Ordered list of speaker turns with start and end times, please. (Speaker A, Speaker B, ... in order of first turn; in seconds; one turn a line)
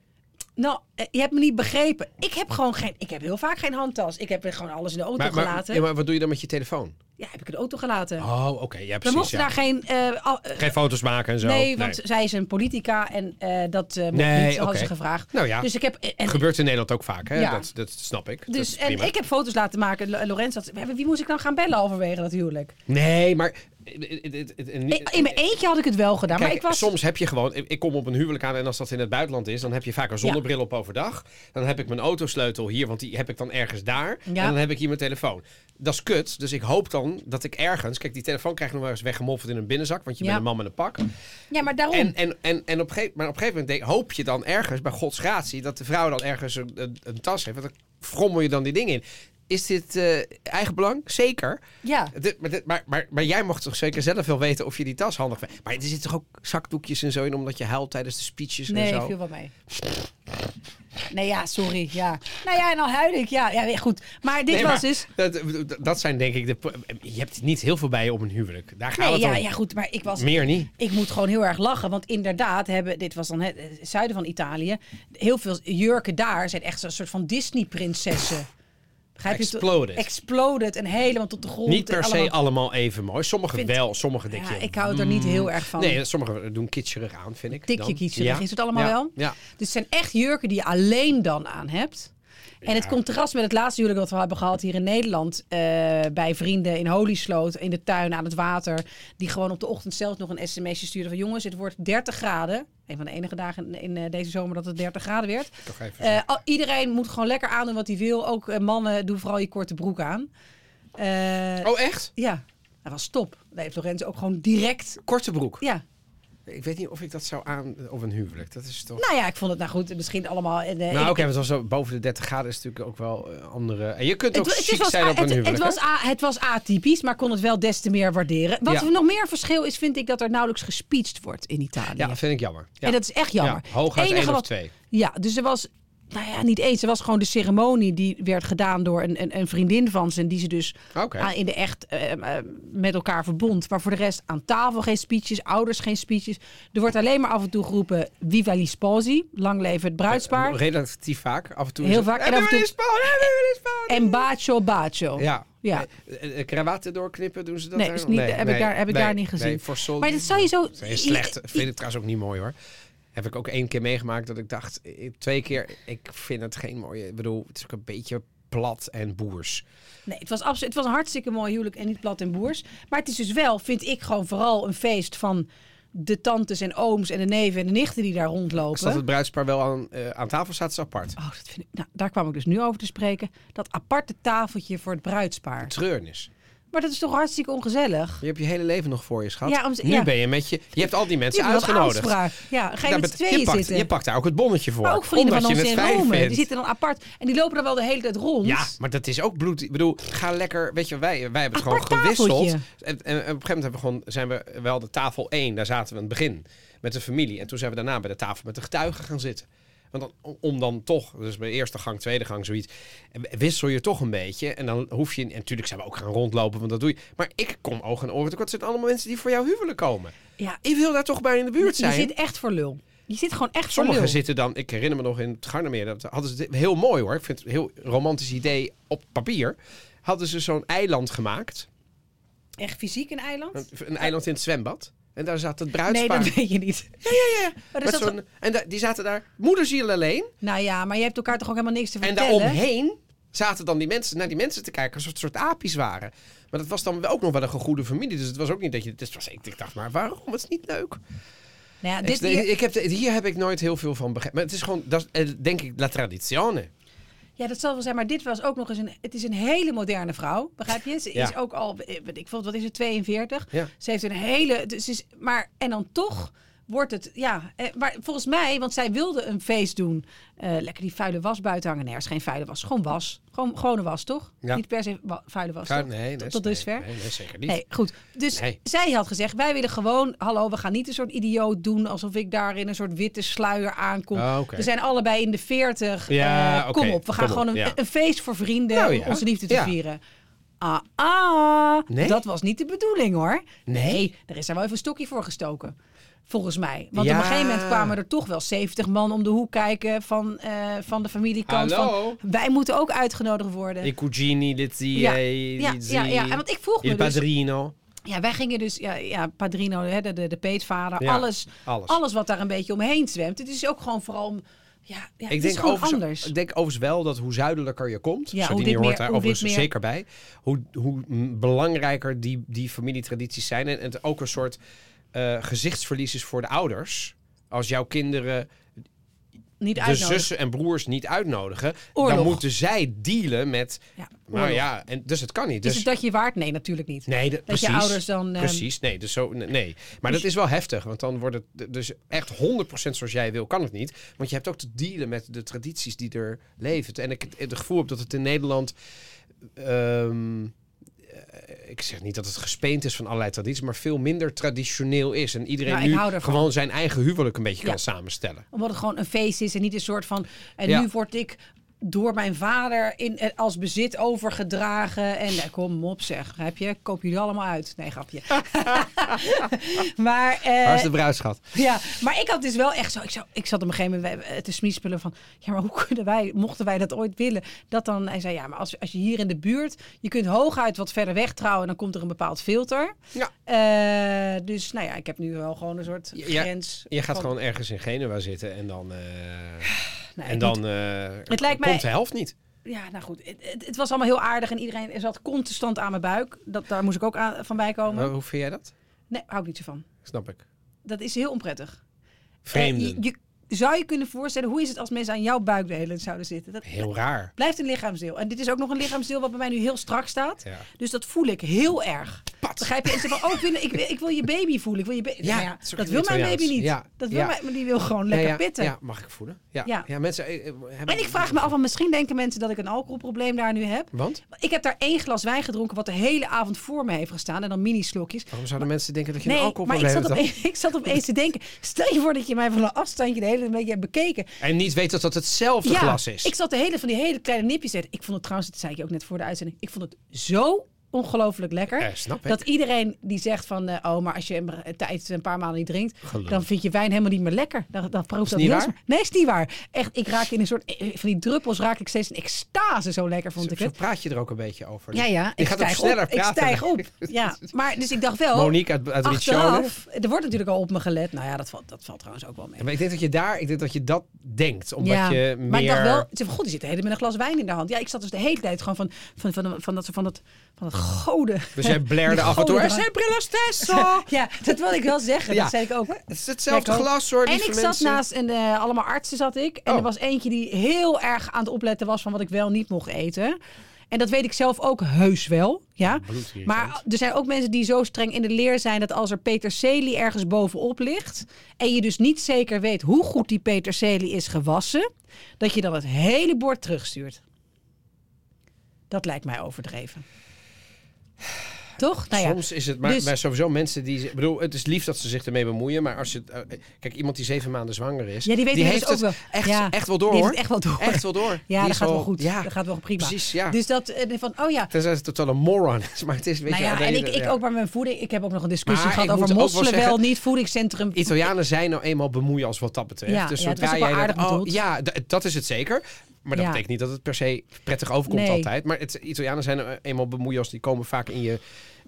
Speaker A: 0.6-5.8
Speaker B: 5.2-7.0
Speaker A: 7.2-8.2
Speaker B: 8.2-9.5
Speaker A: 9.0-10.8
Speaker B: 10.6-12.0
Speaker A: 11.4-16.4
Speaker B: 14.1-15.7
Speaker B: 16.2-19.1
Speaker A: 17.3-17.7
Speaker A: 18.5-22.7
Speaker B: 22.9-25.4
Speaker A: 24.9-26.9
Speaker B: 26.3-41.0
Speaker A: 34.3-34.5
Speaker A: 41.5-42.1
Speaker B: 41.9-51.6
Speaker A: 51.8-52.1
Speaker B: 52.1-59.1
Speaker A: 58.7-59.5
Speaker A: 61.1-65.1
Speaker B: 64.5-69.5
Speaker A: 69.0-78.5
Speaker B: 70.2-70.7
Speaker A: 79.2-82.3
Speaker B: 79.3-80.0
Speaker B: 81.7-89.4
Speaker A: 84.3-86.0
Speaker A: 87.7-92.1
Speaker A: 92.6-110.3
Speaker B: 92.6-92.9
Speaker B: 105.7-106.2
Speaker A: 111.0-115.0
Speaker B: 111.6-112.1
Speaker B: 115.0-115.6
Speaker B: 116.5-119.0
Speaker A: 119.0-121.2
Speaker B: 120.9-125.8
Speaker A: 124.3-132.2
Speaker B: 132.0-134.7
Speaker A: 132.8-150.6
Speaker B: 140.9-141.3
Speaker B: 150.1-154.2
Speaker A: 151.8-153.3
Speaker A: 153.9-155.9
Speaker B: 155.2-162.5
Speaker A: 157.8-161.6
Speaker B: 163.1-169.6
Speaker A: 170.1-179.0
Speaker B: 178.7-181.2
Speaker A: 181.2-185.7
Speaker B: 185.6-186.3
Speaker A: 186.7-188.2
Speaker B: 188.2-192.2
Speaker A: 189.4-190.1
Speaker A: 191.3-193.9
Speaker B: 192.8-196.4
Speaker A: 194.8-198.7
Speaker B: 198.4-222.1
Speaker A: 201.5-202.6
Speaker A: 221.6-224.2
Speaker B: 223.7-231.7
Speaker A: 232.6-233.7
Speaker B: 233.6-236.3
Speaker A: 235.9-238.2
Speaker B: 237.0-240.3
Speaker A: 240.4-242.6
Speaker B: 242.0-251.0
Speaker A: 251.8-252.5
Speaker B: 252.0-256.7
Speaker A: 257.4-276.9
Speaker B: 275.7-277.6
Speaker A: 277.4-290.0
Speaker B: 284.1-284.7
Speaker B: 286.1-287.8
Speaker B: 288.7-289.7
Speaker A: 290.6-295.7
Speaker B: 291.9-292.2
Speaker B: 293.7-294.0
Speaker A: 296.3-303.9
Speaker B: 296.9-297.9
Speaker B: 301.5-302.2
Speaker B: 303.8-307.7
Speaker A: 304.9-307.2
Speaker A: 308.1-316.3
Speaker B: 311.0-312.0
Speaker B: 315.3-324.6
Speaker A: 318.3-319.7
Speaker B: 325.1-328.5
Speaker A: 329.6-330.3
Speaker B: 329.8-335.9
Speaker A: 331.9-332.4
Speaker A: 334.0-334.6
Speaker A: 335.6-338.6
Speaker B: 337.1-348.7
Speaker B: 349.6-350.5
Speaker B: 351.1-358.4
Speaker A: 355.6-356.5
Speaker A: 358.5-370.9
Speaker B: 370.6-371.5
Speaker A: 371.5-387.3
Speaker B: 386.1-389.7
Speaker A: 389.6-390.6
Speaker B: 390.2-392.3
Speaker A: 391.3-391.8
Speaker A: 392.6-398.1
Speaker B: 397.9-398.7
Speaker A: 399.1-399.9
Speaker B: 400.0-400.4
Speaker A: 400.8-401.8
Speaker B: 402.4-403.0
Speaker A: 402.5-418.7
Speaker B: 406.6-407.3
Speaker B: 412.4-413.4
Speaker B: 415.2-417.4
Speaker B: 418.1-421.5
Speaker A: 420.9-428.6
Speaker B: 423.9-424.2
Speaker B: 428.3-430.2
Speaker A: 429.2-434.3
Speaker B: 434.4-436.3
Speaker A: 435.6-453.7
Speaker B: 441.8-442.4
Speaker B: 446.0-446.4
Speaker B: 448.3-448.7
Speaker B: 453.4-457.1
Speaker A: 454.9-462.6
Speaker B: 458.3-459.7
Speaker B: 462.6-466.1
Speaker A: 464.8-483.4
Speaker B: 471.6-474.1
Speaker B: 475.3-478.0
Speaker A: 483.9-494.9
Speaker B: 485.9-486.8
Speaker A: 495.4-497.2
Speaker A: 498.9-500.0
Speaker A: 501.8-503.1
Speaker B: 502.1-513.6
Speaker A: 508.2-514.7
Speaker B: 514.7-517.3
Speaker A: 516.5-521.2
Speaker B: 518.7-520.0
Speaker B: 520.9-531.4
Speaker A: 523.1-524.5
Speaker A: 526.3-526.6
Speaker A: 528.1-528.5